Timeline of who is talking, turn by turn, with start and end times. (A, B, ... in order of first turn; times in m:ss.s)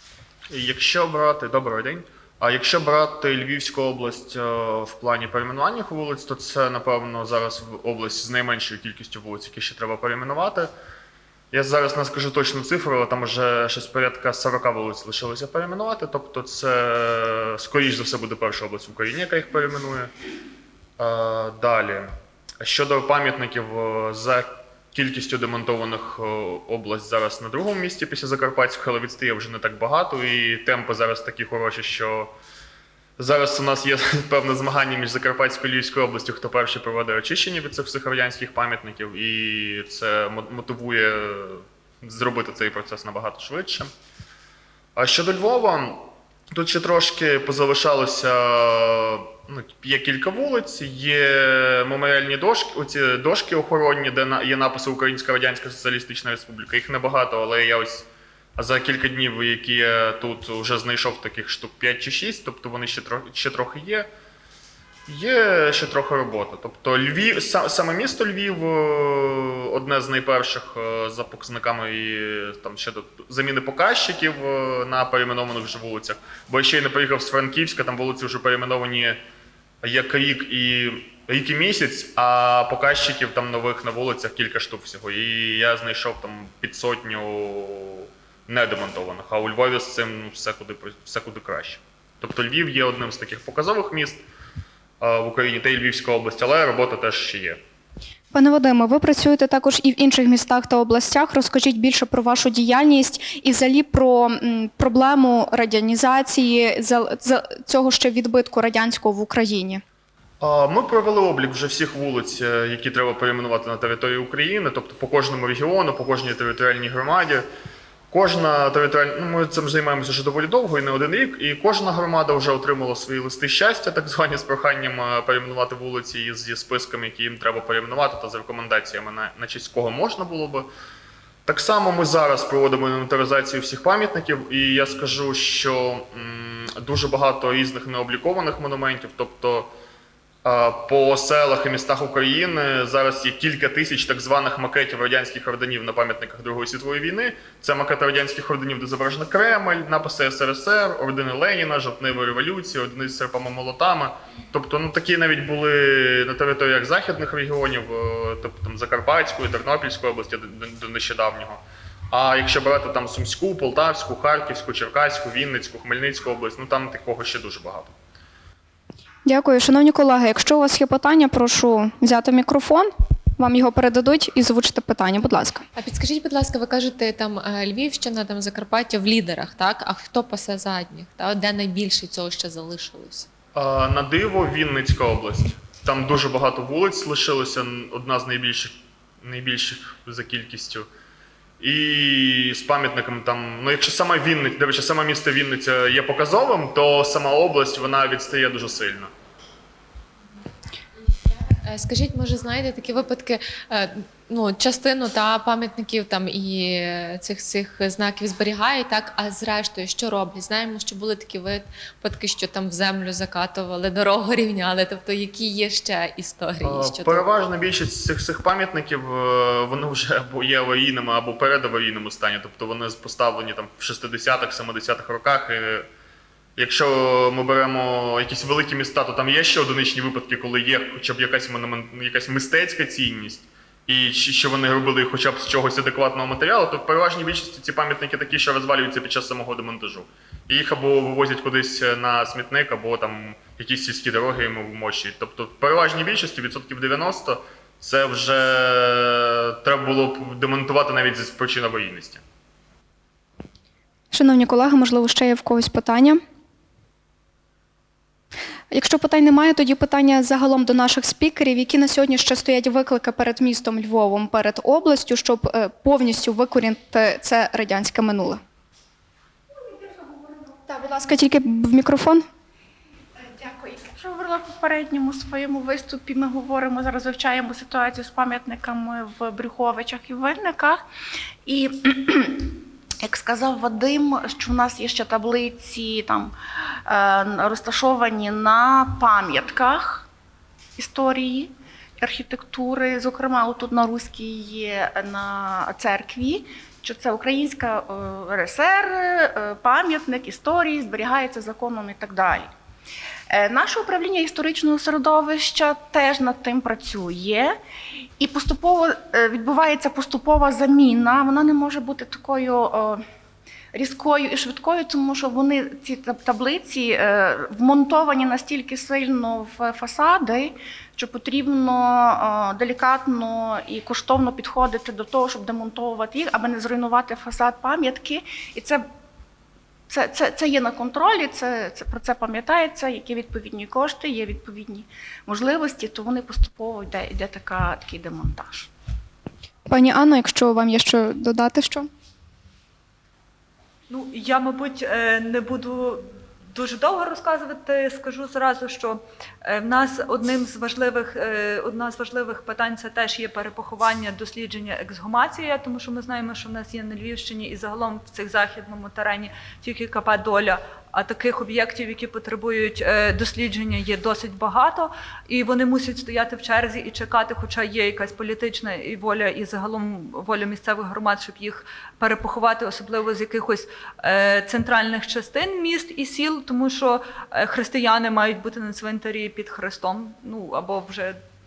0:00.5-0:10.7 A
0:11.5-0:20.1 A
0:21.0-0:32.3 A
0:33.2-0:43.9 A
0:45.0-1:04.1 A
1:05.1-1:19.2 A
1:19.8-1:34.2 A
1:35.0-1:37.6 A
1:38.3-1:49.8 B
1:50.4-1:57.4 A
1:58.1-2:10.7 A
2:11.4-2:19.7 A
2:20.4-2:41.6 A
2:42.1-2:47.9 A
2:49.2-2:55.6 B
2:55.8-3:03.3 C
3:03.5-3:10.8 A
3:11.6-3:19.1 A
3:21.2-3:37.2 C
3:36.6-3:45.9 A
3:46.6-4:12.2 A
4:14.1-4:16.2 B
4:18.7-4:28.4 B
4:29.5-4:30.5 D
4:30.7-4:32.2 B
4:33.2-4:40.8 D
4:41.4-4:46.3 D
4:46.8-4:50.1 D
4:50.8-5:02.5 D
5:03.3-5:07.6 D
5:08.2-5:13.0 D
5:13.7-5:28.8 D
5:29.9-5:38.7 D
5:39.7-5:41.9 B
5:43.9-6:21.2 E